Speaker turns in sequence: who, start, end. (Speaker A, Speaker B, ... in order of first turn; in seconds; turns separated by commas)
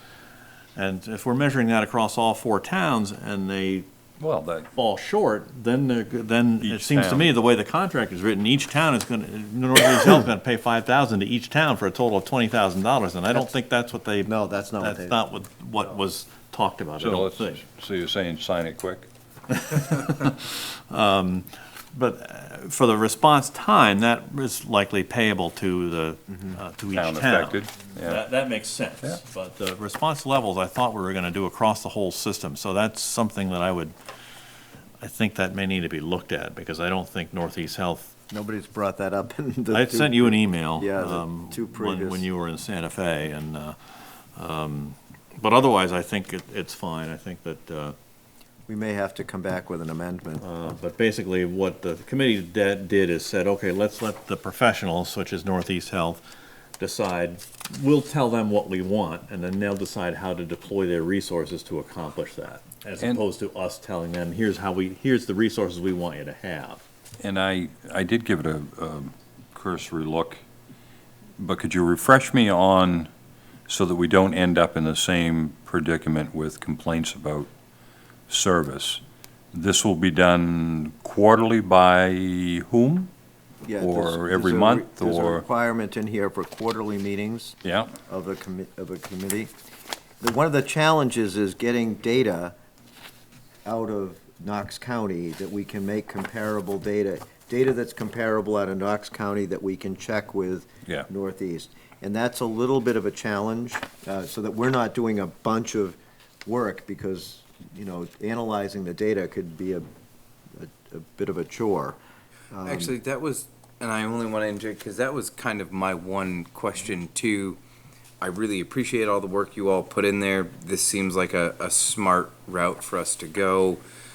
Speaker A: 0.8-3.9, Speaker B: 4.2-4.7, Speaker A: 4.7-17.6, Speaker B: 6.6-7.3, Speaker C: 14.2-15.2, Speaker B: 17.0-19.1, Speaker A: 19.5-34.0, Speaker B: 26.9-28.2, Speaker A: 35.0-38.1, Speaker C: 38.3-42.2, Speaker A: 39.7-43.8, Speaker A: 44.4-48.0, Speaker C: 48.7-50.4, Speaker A: 50.4-56.2, Speaker A: 56.8-66.8, Speaker B: 67.2-70.4, Speaker B: 71.4-73.1, Speaker B: 73.7-77.5, Speaker B: 78.3-79.0, Speaker B: 79.5-83.1, Speaker C: 83.6-89.5, Speaker B: 83.8-85.5, Speaker B: 87.6-88.0, Speaker C: 90.2-92.5, Speaker C: 93.7-109.8, Speaker C: 110.6-112.0, Speaker C: 112.5-112.9, Speaker D: 112.6-117.6, Speaker D: 118.2-123.8